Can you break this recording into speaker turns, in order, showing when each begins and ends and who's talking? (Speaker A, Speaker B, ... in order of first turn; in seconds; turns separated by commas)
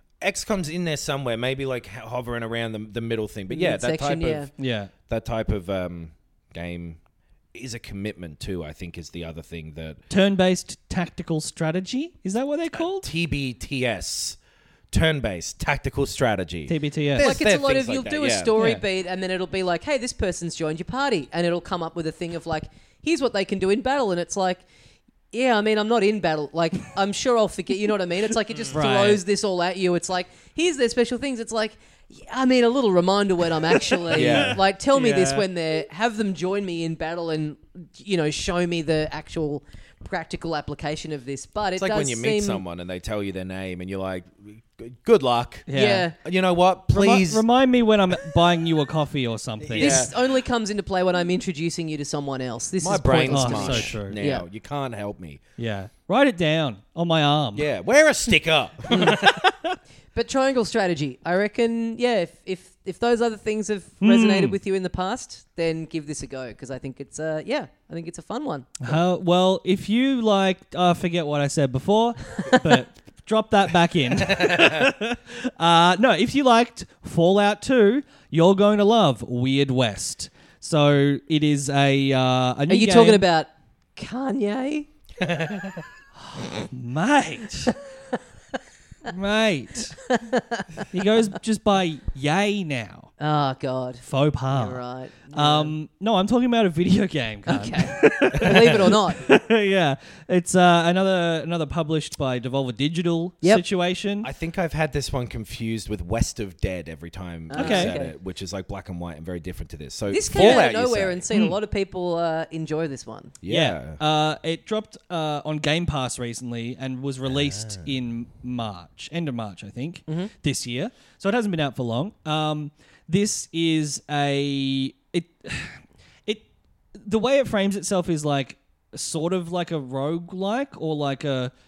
Speaker A: 0.2-4.5, Speaker B: 3.5-4.5, Speaker C: 4.6-4.9, Speaker A: 5.1-7.0, Speaker A: 7.5-10.0, Speaker C: 10.1-13.1, Speaker A: 12.7-14.4, Speaker A: 14.9-18.5, Speaker C: 16.7-17.4, Speaker B: 17.2-24.6, Speaker C: 18.6-18.8, Speaker B: 25.3-42.6, Speaker C: 28.7-29.2, Speaker C: 34.0-35.5, Speaker A: 34.1-34.6, Speaker A: 41.8-45.7, Speaker C: 45.7-46.1, Speaker B: 45.7-46.1, Speaker A: 46.2-47.5, Speaker C: 46.9-50.1, Speaker B: 49.7-54.5, Speaker A: 49.7-50.2, Speaker A: 52.8-55.4, Speaker C: 53.1-54.2, Speaker C: 55.6-57.7, Speaker A: 57.5-59.5, Speaker B: 58.9-59.2, Speaker B: 60.1-69.0, Speaker C: 64.0-64.6, Speaker C: 68.8-83.3, Speaker A: 74.4-74.8, Speaker B: 82.7-84.9, Speaker A: 85.2-85.8, Speaker C: 86.2-87.8, Speaker C: 89.0-90.1, Speaker B: 90.1-90.8, Speaker C: 90.9-93.1, Speaker B: 93.2-95.7, Speaker C: 94.0-104.3, Speaker B: 97.5-99.2, Speaker A: 104.2-111.2, Speaker B: 107.5-108.1, Speaker C: 107.6-108.0, Speaker B: 110.1-113.3, Speaker A: 113.4-114.0, Speaker C: 113.5-131.5, Speaker A: 117.2-117.9